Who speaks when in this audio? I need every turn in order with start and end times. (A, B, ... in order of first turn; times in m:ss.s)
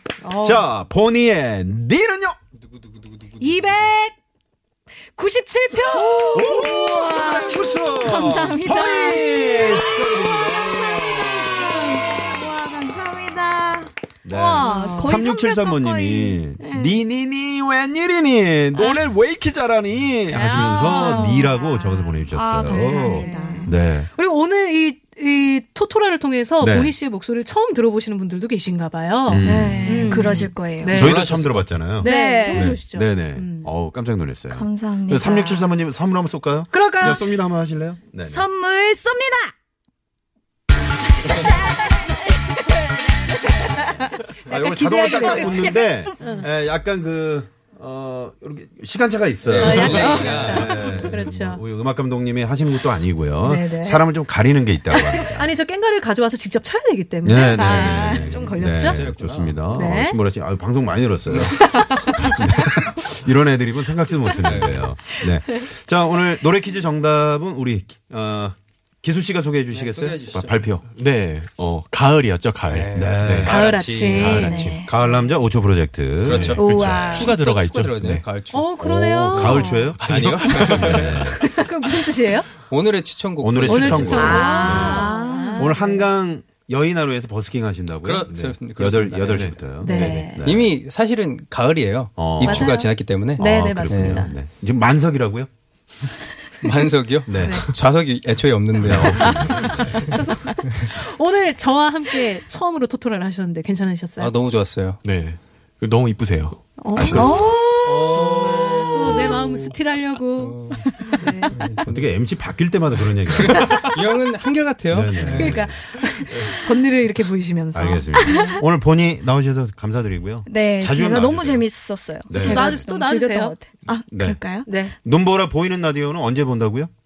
0:00.2-0:00.7 A
0:00.3-0:02.4 B
0:02.6-0:03.8 C
0:03.4-0:04.2 A
0:05.1-0:06.4 A
0:05.9-0:17.0 D
0:06.2-0:11.9 B
0:14.2-0:24.1 B
0:14.6-0:15.2 A
0:18.7-0:19.0 D
0:20.3-0:23.7 D
0:20.4-0:21.5 A
0:22.6-0:31.2 A
0:26.6-0:26.9 B
0:29.2-0:38.4 B
0:29.4-0:31.0 D
0:30.9-0:31.8 C
0:32.0-0:33.7 A
0:32.0-0:32.8 D
0:34.5-0:35.7 D
0:36.7-0:37.2 A
0:38.3-0:39.5 D
0:41.3-0:43.0 D
0:43.6-0:43.9 D
0:44.3-0:55.5 B
0:44.5-0:46.2 D
0:44.8-0:45.7 A
0:46.2-0:46.5 A
0:49.4-0:51.1 C
0:49.6-0:51.6 A
0:53.4-0:54.0 A
0:54.9-0:59.0 A
0:57.2-1:10.8 B
0:57.5-0:58.4 D
0:57.9-0:59.6 C
0:59.7-1:00.2 A
1:01.2-1:01.8 C
1:04.4-1:04.9 C
1:09.7-1:10.6 C
1:10.9-1:14.8 E
1:12.7-1:14.6 C
1:12.9-1:13.5 B
1:13.5-1:14.6 A
1:14.2-1:14.9 D
1:14.8-1:17.1 B
1:16.2-1:18.7 C
1:16.2-1:18.3 E
1:16.6-1:17.3 D
1:17.0-1:17.3 A
1:18.5-1:19.9 A
1:18.8-1:21.4 B
1:20.0-1:21.4 E
1:20.0-1:21.2 C
1:21.4-1:22.5 A
1:22.6-1:25.0 C
1:23.4-1:30.7 B
1:23.6-1:26.0 A
1:24.2-1:25.8 D
1:28.0-1:34.3 C
1:29.8-1:30.4 A
1:32.2-1:32.8 B
1:32.4-1:34.3 A
1:33.4-1:35.5 B
1:36.6-1:40.1 C
1:37.3-1:37.7 B
1:37.4-1:37.7 A
1:38.8-1:40.0 B
1:39.0-1:44.3 A
1:44.2-1:45.0 C
1:45.0-1:46.6 E
1:46.8-1:47.4 A
1:46.9-1:47.4 B
1:47.1-1:48.4 D
1:47.8-1:49.7 C
1:48.4-1:49.2 B
1:48.7-1:51.6 A
1:50.4-1:51.0 C
1:51.5-1:52.2 C
1:51.8-1:53.8 B
1:53.3-1:55.6 C
1:54.9-1:55.8 B
1:55.2-1:58.6 A
1:57.7-2:01.7 B
1:58.2-1:58.6 D
2:00.4-2:04.7 D
2:02.3-2:02.8 B
2:02.3-2:03.6 A
2:03.9-2:04.4 B
2:04.6-2:04.9 A
2:05.0-2:06.9 B